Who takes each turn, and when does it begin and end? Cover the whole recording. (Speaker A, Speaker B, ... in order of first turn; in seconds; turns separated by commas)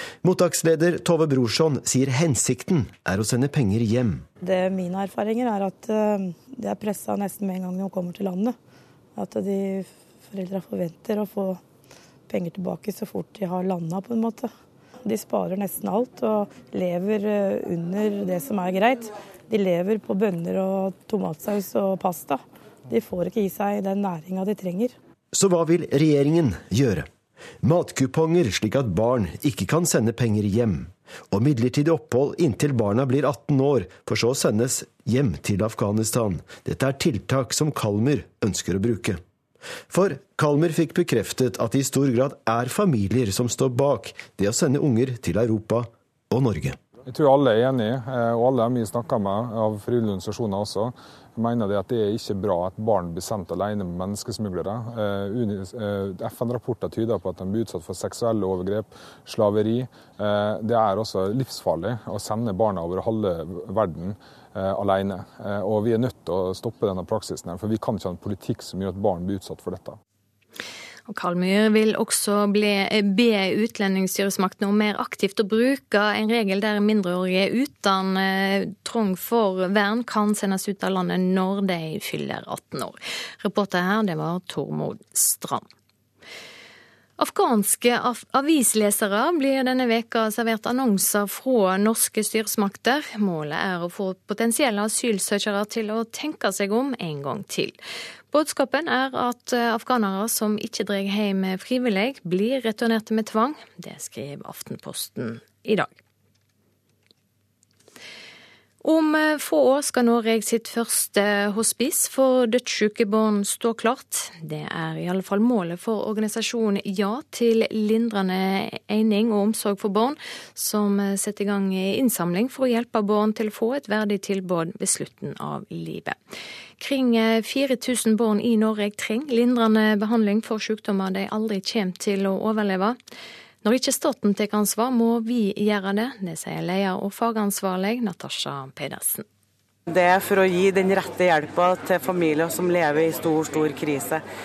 Speaker A: 0.2-4.2, Speaker B: 4.4-8.6, Speaker B: 9.2-11.6, Speaker B: 12.3-14.5, Speaker B: 15.1-24.9, Speaker A: 25.3-27.1, Speaker A: 27.6-39.2, Speaker A: 39.9-46.8, Speaker C: 47.1-70.0, Speaker D: 71.1-85.7, Speaker D: 87.2-97.8, Speaker D: 98.3-105.9, Speaker D: 108.8-126.2, Speaker D: 126.8-133.0, Speaker D: 133.6-139.2, Speaker E: 139.9-144.2